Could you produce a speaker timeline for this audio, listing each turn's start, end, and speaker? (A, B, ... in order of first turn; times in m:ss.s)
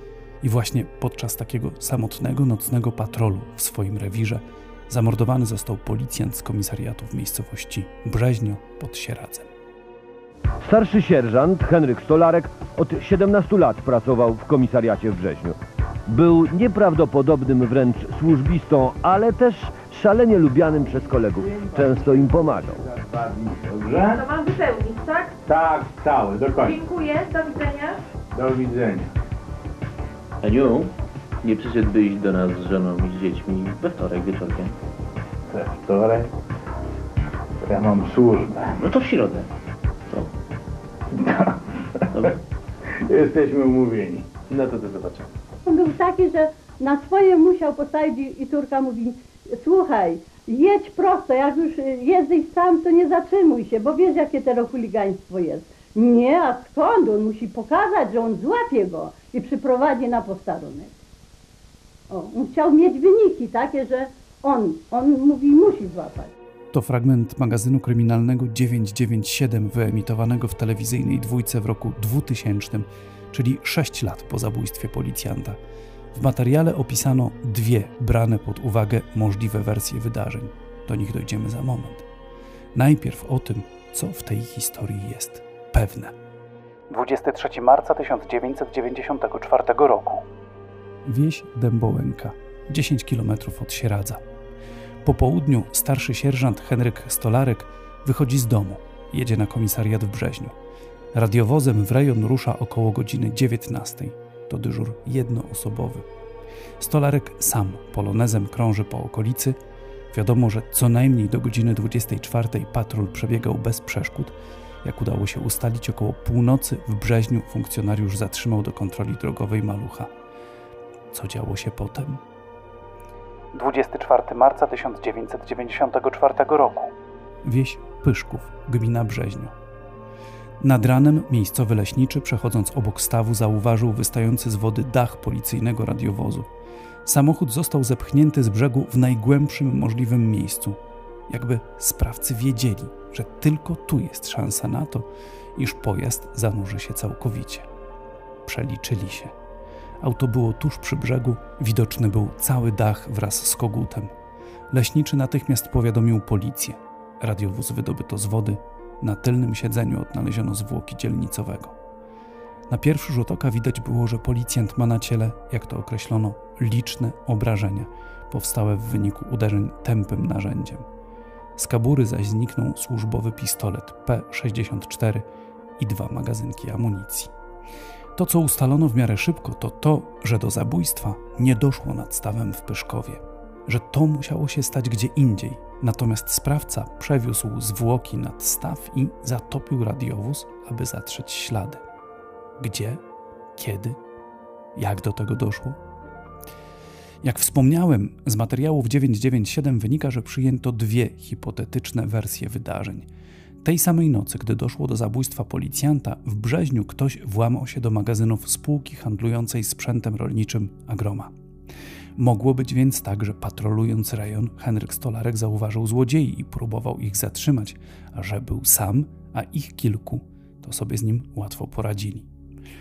0:00.4-0:09.5 A
0:10.6-0:15.6 B
0:16.1-0:22.8 B
0:21.7-0:24.2 C
0:24.1-0:25.3 D
0:25.5-0:26.7 C
0:26.6-0:28.0 D
0:28.3-0:29.1 C
0:30.4-0:34.8 E
0:35.5-0:36.3 C
0:37.6-0:38.8 C
0:38.8-0:39.5 E
0:41.2-0:41.6 C
0:43.1-0:44.3 C
0:44.5-0:45.2 E
0:45.6-1:00.9 F
1:02.1-1:06.3 F
1:06.7-1:15.6 A
1:16.1-1:22.0 A
1:22.7-1:26.1 A
1:26.9-1:30.2 A
1:31.0-1:34.2 A
1:35.0-1:40.5 A
1:41.1-1:46.0 A
1:46.8-1:49.6 A
1:50.1-2:00.1 A
2:01.1-2:02.2 A
2:03.5-2:09.5 A
2:10.6-2:16.5 A
2:17.0-2:20.8 A
2:21.3-2:27.7 A
2:28.4-2:29.3 A
2:30.0-2:34.1 A
2:34.7-2:41.7 A
2:42.7-2:50.8 A
2:51.6-2:55.2 A
2:55.8-2:57.3 A
2:58.2-3:11.8 A
3:12.6-3:13.0 A
3:13.6-3:14.0 A
3:14.8-3:15.8 A
3:17.2-3:23.1 A
3:23.6-3:31.3 A
3:32.2-3:42.3 A